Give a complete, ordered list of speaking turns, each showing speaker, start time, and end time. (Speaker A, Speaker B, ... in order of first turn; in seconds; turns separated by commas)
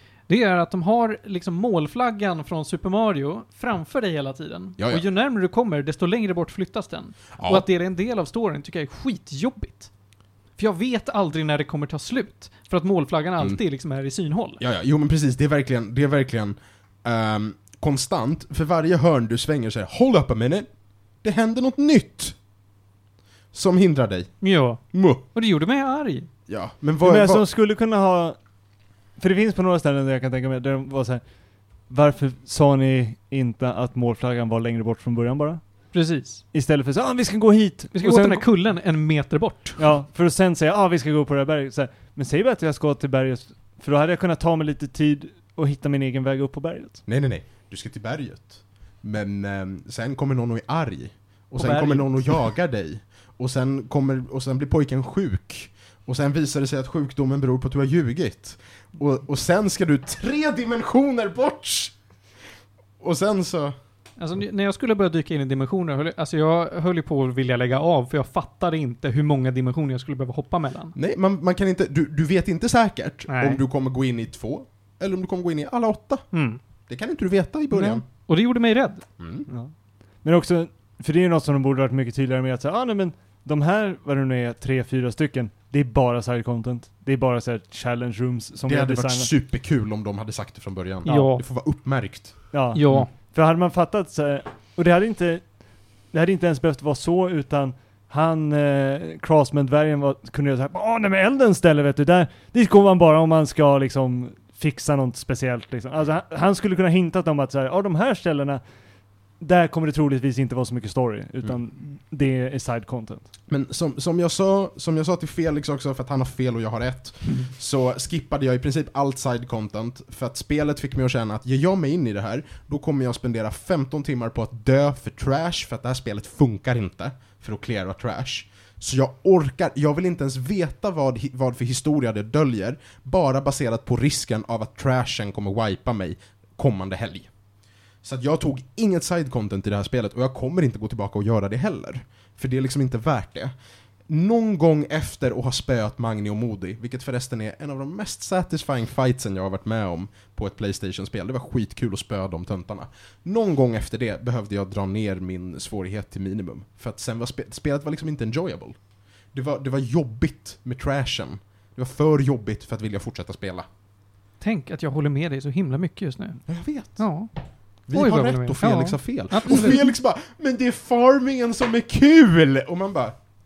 Speaker A: 0.3-9.9, Speaker B: 4.8-5.0, Speaker B: 7.4-7.7, Speaker A: 10.6-14.6, Speaker B: 14.6-22.4, Speaker B: 23.5-25.2, Speaker A: 24.4-26.3, Speaker B: 26.5-27.4, Speaker C: 27.0-28.4, Speaker C: 29.2-31.2, Speaker C: 31.9-35.6, Speaker A: 35.9-36.4, Speaker C: 36.5-38.5, Speaker A: 37.9-39.8, Speaker C: 39.8-47.0, Speaker B: 47.1-62.0, Speaker A: 51.6-52.4, Speaker B: 63.0-63.8, Speaker A: 64.2-71.0, Speaker B: 71.0-76.3, Speaker A: 73.3-73.6, Speaker A: 76.3-76.6, Speaker B: 76.9-78.0, Speaker A: 77.7-79.1, Speaker B: 79.2-79.5, Speaker C: 80.2-89.3, Speaker B: 88.7-92.4, Speaker A: 91.0-91.4, Speaker C: 92.5-95.6, Speaker A: 92.7-93.1, Speaker C: 96.1-108.6, Speaker C: 109.4-113.3, Speaker B: 113.5-137.3, Speaker B: 138.0-143.5, Speaker B: 144.1-158.8, Speaker B: 159.3-163.7, Speaker A: 164.4-167.3, Speaker B: 166.5-167.0, Speaker B: 167.9-173.2, Speaker A: 167.9-169.9